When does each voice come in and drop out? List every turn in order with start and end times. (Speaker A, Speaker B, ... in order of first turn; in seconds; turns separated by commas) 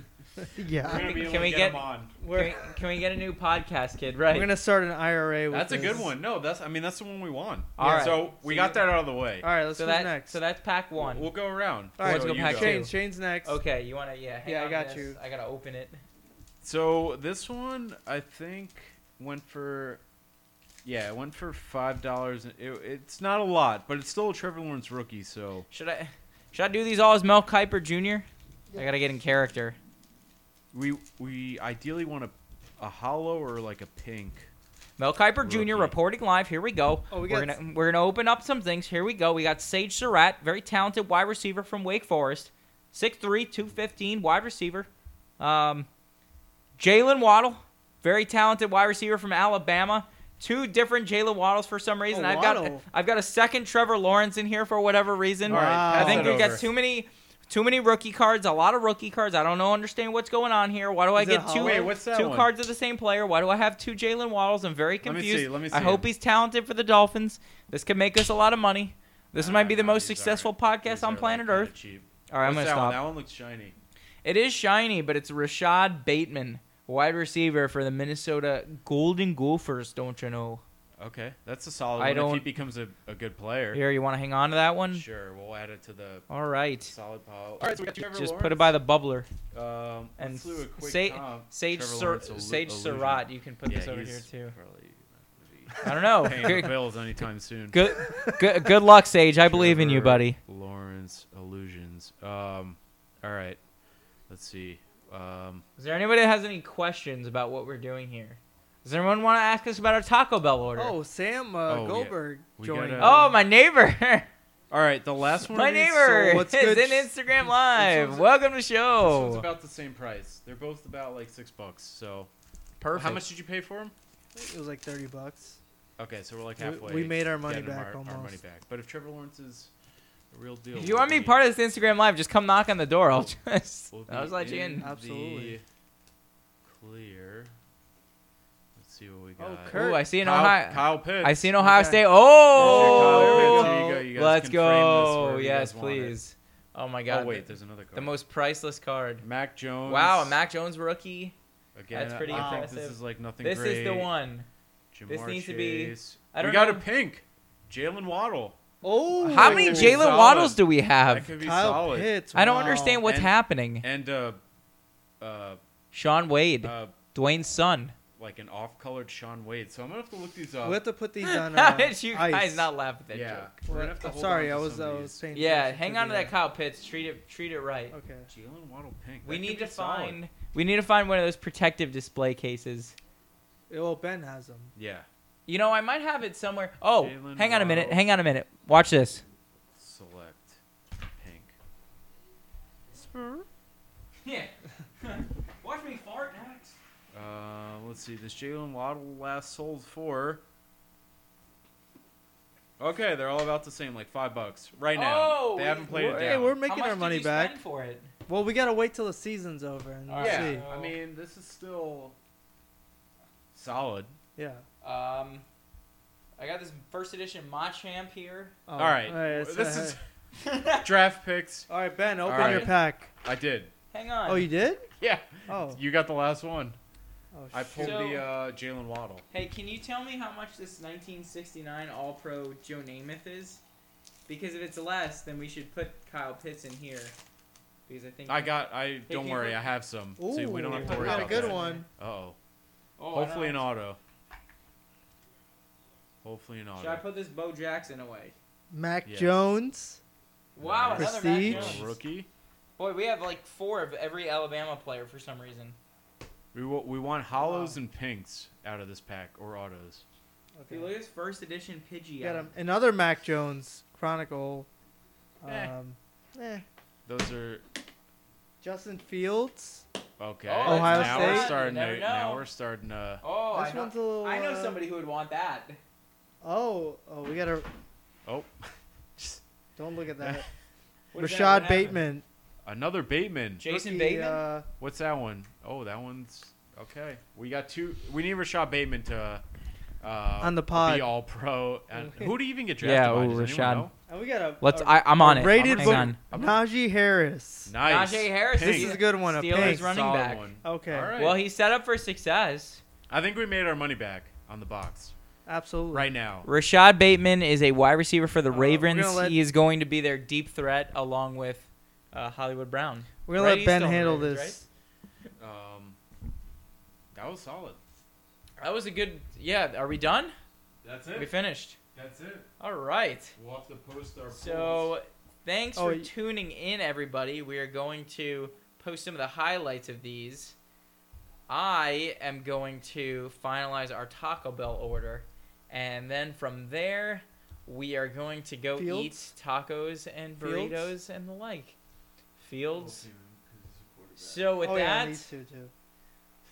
Speaker A: 0.5-1.4, Speaker B: 0.8-2.1, Speaker C: 0.9-4.5, Speaker A: 2.2-2.6, Speaker A: 4.3-6.1, Speaker B: 5.5-9.5, Speaker C: 7.8-8.3, Speaker A: 7.8-8.8, Speaker A: 9.4-10.4, Speaker C: 9.7-11.3, Speaker B: 10.9-12.8, Speaker A: 12.0-13.6, Speaker C: 12.0-12.9, Speaker C: 13.4-16.0, Speaker A: 14.4-15.2, Speaker B: 16.6-20.0, Speaker B: 20.8-25.7, Speaker C: 25.7-29.8, Speaker B: 30.7-34.5, Speaker C: 35.0-45.9, Speaker B: 35.4-35.9, Speaker A: 37.1-37.5, Speaker C: 46.8-71.7, Speaker A: 52.1-52.8, Speaker B: 55.5-56.7, Speaker A: 55.5-56.3, Speaker A: 61.1-62.0, Speaker B: 61.5-62.5, Speaker B: 65.0-66.1, Speaker B: 69.3-73.7, Speaker C: 72.3-73.0, Speaker C: 74.2-80.6, Speaker B: 81.0-83.8, Speaker C: 82.0-82.5, Speaker C: 83.7-85.0, Speaker B: 84.9-86.2, Speaker C: 86.3-86.9, Speaker B: 86.8-88.8, Speaker C: 88.0-89.3, Speaker B: 89.5-97.9, Speaker C: 90.2-94.5, Speaker C: 95.8-96.7, Speaker C: 97.7-100.4, Speaker B: 99.5-103.6, Speaker B: 104.3-105.6, Speaker C: 105.8-110.9, Speaker A: 110.7-113.4, Speaker B: 111.7-113.2, Speaker C: 113.0-114.3, Speaker B: 114.7-116.2, Speaker C: 115.5-119.5, Speaker A: 116.0-118.2, Speaker B: 119.0-122.3, Speaker C: 122.8-123.2, Speaker B: 122.9-123.9, Speaker A: 124.3-125.6, Speaker B: 126.0-129.7, Speaker A: 126.6-128.4, Speaker B: 130.3-131.4, Speaker C: 130.7-134.9, Speaker B: 133.9-135.6, Speaker A: 134.8-135.6, Speaker B: 136.6-137.5, Speaker B: 138.8-141.6, Speaker A: 139.4-140.1, Speaker C: 139.7-149.2, Speaker A: 141.6-144.1, Speaker B: 142.5-146.2, Speaker B: 147.1-148.1, Speaker B: 149.2-150.4, Speaker C: 149.8-151.3, Speaker B: 151.7-154.1, Speaker C: 151.9-154.5, Speaker A: 152.3-152.7, Speaker B: 154.9-158.6, Speaker C: 155.1-156.8, Speaker A: 158.8-160.1, Speaker B: 159.2-162.1, Speaker C: 159.3-161.3, Speaker A: 161.4-163.0, Speaker C: 162.3-163.8, Speaker B: 163.0-164.4, Speaker B: 165.2-165.6, Speaker C: 165.9-167.9, Speaker B: 166.6-167.0, Speaker B: 168.2-170.8, Speaker A: 170.6-172.7, Speaker C: 171.2-173.5, Speaker B: 173.1-175.2, Speaker A: 173.7-176.3, Speaker C: 175.3-177.9, Speaker A: 177.9-178.3, Speaker B: 178.3-180.2, Speaker C: 179.2-182.9, Speaker A: 183.7-184.7, Speaker B: 184.8-185.1, Speaker C: 185.4-189.2, Speaker B: 187.0-188.0, Speaker B: 189.7-190.6, Speaker B: 191.2-191.5, Speaker A: 192.9-193.4, Speaker C: 194.2-196.8, Speaker B: 197.1-200.4, Speaker B: 202.8-206.6, Speaker C: 204.9-208.1, Speaker A: 205.8-207.6, Speaker A: 208.3-210.7, Speaker C: 210.1-210.9, Speaker B: 210.2-212.2, Speaker B: 213.5-214.1, Speaker A: 214.3-214.6, Speaker C: 214.8-215.4, Speaker C: 216.4-218.5, Speaker A: 218.7-220.0, Speaker B: 218.8-220.0, Speaker C: 220.4-220.8, Speaker B: 220.8-221.7, Speaker A: 221.7-223.1, Speaker B: 222.2-223.7, Speaker C: 222.4-222.7, Speaker C: 223.9-224.5, Speaker A: 224.2-224.9, Speaker B: 225.0-226.8, Speaker A: 225.5-225.8, Speaker A: 227.3-228.0, Speaker B: 227.5-229.2, Speaker C: 227.8-228.2, Speaker C: 229.3-233.6, Speaker C: 234.3-237.1, Speaker C: 237.9-238.5, Speaker B: 238.3-242.3, Speaker C: 239.1-239.6, Speaker A: 240.2-241.9, Speaker C: 240.7-241.8, Speaker C: 243.0-243.6, Speaker B: 243.1-244.0, Speaker B: 246.2-247.0, Speaker C: 246.8-248.3, Speaker A: 248.7-250.0, Speaker B: 249.0-249.4, Speaker C: 250.5-251.9, Speaker B: 250.6-252.3, Speaker A: 250.9-251.7, Speaker C: 252.8-255.8, Speaker B: 256.5-260.0, Speaker A: 257.4-257.8, Speaker A: 260.6-260.9, Speaker C: 260.7-262.5, Speaker A: 262.2-264.7, Speaker A: 265.4-266.6, Speaker B: 265.4-265.7, Speaker B: 267.1-267.6, Speaker A: 268.6-269.9, Speaker B: 270.2-273.2, Speaker C: 270.4-272.4, Speaker A: 270.6-271.5, Speaker C: 273.2-275.8, Speaker A: 273.5-274.8, Speaker A: 276.4-277.7, Speaker B: 278.2-279.4, Speaker A: 279.8-280.5, Speaker B: 280.2-280.5, Speaker C: 281.1-282.0, Speaker A: 281.1-282.2, Speaker B: 282.6-283.6, Speaker C: 283.6-284.4, Speaker A: 283.7-284.7, Speaker B: 284.8-289.4, Speaker B: 290.0-293.9, Speaker A: 290.4-291.1, Speaker A: 292.0-292.3, Speaker C: 292.8-293.9, Speaker A: 294.1-297.7, Speaker C: 294.6-296.2, Speaker B: 295.4-296.6, Speaker B: 297.6-301.4, Speaker C: 297.8-300.5, Speaker A: 298.7-299.9, Speaker A: 300.6-301.1, Speaker C: 301.1-302.8, Speaker B: 303.1-305.1, Speaker A: 305.4-306.1, Speaker B: 305.9-306.5, Speaker C: 306.4-314.6, Speaker A: 308.5-309.4, Speaker A: 313.2-314.7, Speaker B: 315.4-316.0, Speaker B: 317.1-317.8, Speaker C: 318.6-320.3, Speaker B: 320.8-321.3, Speaker C: 321.1-321.8, Speaker B: 321.9-322.5, Speaker C: 322.6-323.3, Speaker B: 323.4-324.9, Speaker C: 324.3-330.6, Speaker A: 325.7-326.1, Speaker C: 331.5-341.8, Speaker A: 338.8-339.3, Speaker A: 340.4-340.9, Speaker C: 342.4-343.0, Speaker B: 342.7-344.6, Speaker C: 344.2-345.2, Speaker A: 344.6-345.7